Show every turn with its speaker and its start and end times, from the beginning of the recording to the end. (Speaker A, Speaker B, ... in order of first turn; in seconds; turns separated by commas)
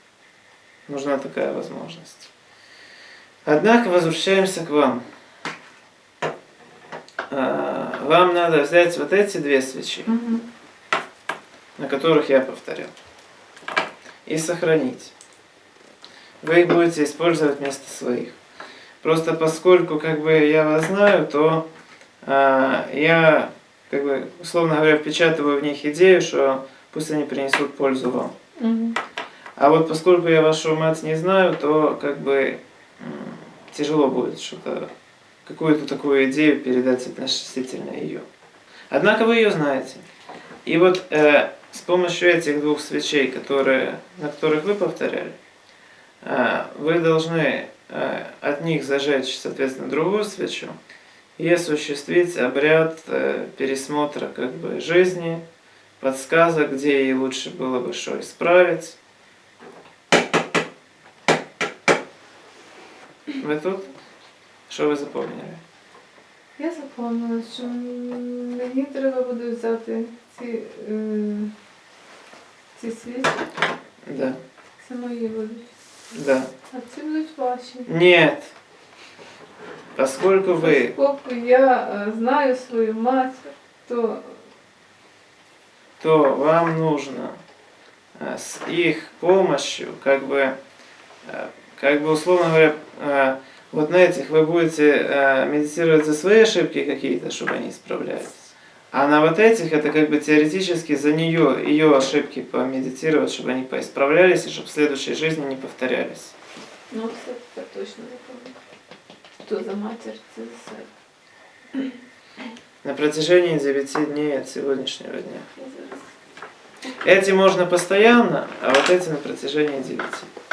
Speaker A: 0.9-2.3, Speaker A: 3.4-5.0, Speaker A: 7.3-10.1, Speaker B: 10.1-10.4, Speaker A: 11.8-12.9, Speaker A: 14.3-15.1, Speaker A: 16.4-18.3, Speaker A: 19.0-21.6, Speaker A: 22.2-28.3, Speaker B: 28.6-29.0, Speaker A: 29.6-34.9, Speaker A: 35.4-38.2, Speaker A: 38.9-40.0, Speaker A: 40.6-45.4, Speaker A: 46.2-50.8, Speaker A: 51.4-55.4, Speaker A: 56.0-59.0, Speaker A: 63.4-63.9, Speaker A: 64.7-65.6, Speaker B: 66.6-71.5, Speaker B: 72.7-73.5, Speaker A: 74.0-74.4, Speaker B: 74.8-75.7, Speaker A: 76.1-76.5, Speaker B: 76.7-77.9, Speaker A: 77.9-78.5, Speaker A: 80.0-80.9, Speaker B: 80.5-84.4, Speaker A: 86.0-87.4, Speaker A: 88.2-90.6, Speaker A: 91.2-106.3, Speaker B: 106.9-108.5, Speaker B: 109.4-110.9, Speaker A: 112.8-115.5, Speaker B: 115.5-116.1, Speaker A: 117.0-120.3